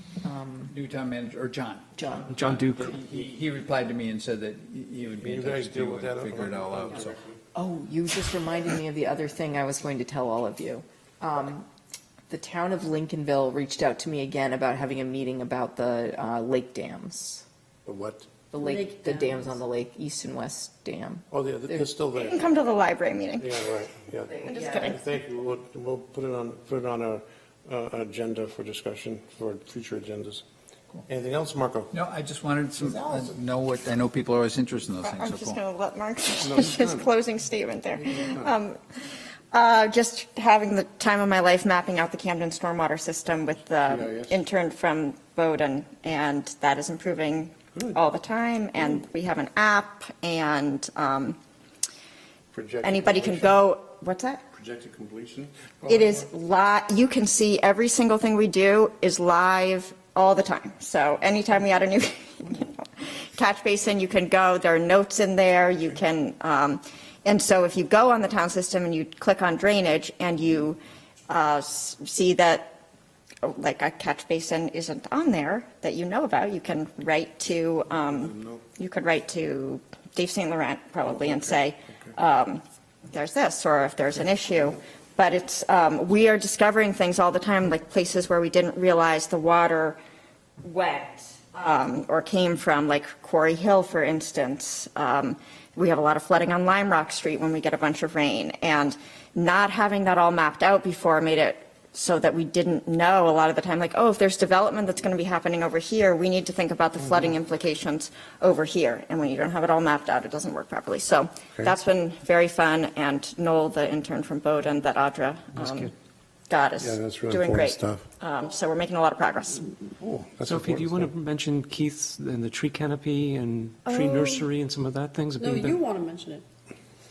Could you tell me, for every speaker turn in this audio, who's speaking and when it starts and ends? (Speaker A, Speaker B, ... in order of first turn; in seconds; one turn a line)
Speaker A: 0.2-0.7
Speaker B: 0.7-7.2
Speaker A: 2.0-2.3
Speaker C: 2.3-2.9
Speaker D: 2.8-3.3
Speaker D: 5.2-7.3
Speaker A: 7.5-11.7
Speaker A: 12.3-17.4
Speaker D: 17.9-18.3
Speaker A: 18.5-21.8
Speaker E: 18.6-19.5
Speaker D: 21.3-22.5
Speaker F: 22.1-23.5
Speaker D: 23.4-30.4
Speaker F: 24.4-24.9
Speaker A: 24.4-24.9
Speaker D: 31.1-31.9
Speaker B: 31.9-35.6
Speaker D: 32.8-33.4
Speaker F: 35.0-51.4
Speaker D: 36.4-37.1
Speaker D: 38.0-38.5
Speaker D: 43.8-44.4
Speaker D: 52.5-53.6
Speaker F: 52.8-54.4
Speaker D: 54.5-56.3
Speaker F: 55.9-72.8
Speaker F: 73.4-90.0
Speaker D: 78.0-78.6
Speaker D: 81.0-82.1
Speaker F: 90.6-115.9
Speaker C: 115.5-115.9
Speaker F: 116.5-119.7
Speaker D: 116.8-118.0
Speaker D: 120.0-121.1
Speaker C: 120.4-125.8
Speaker F: 123.8-124.5
Speaker E: 125.4-126.4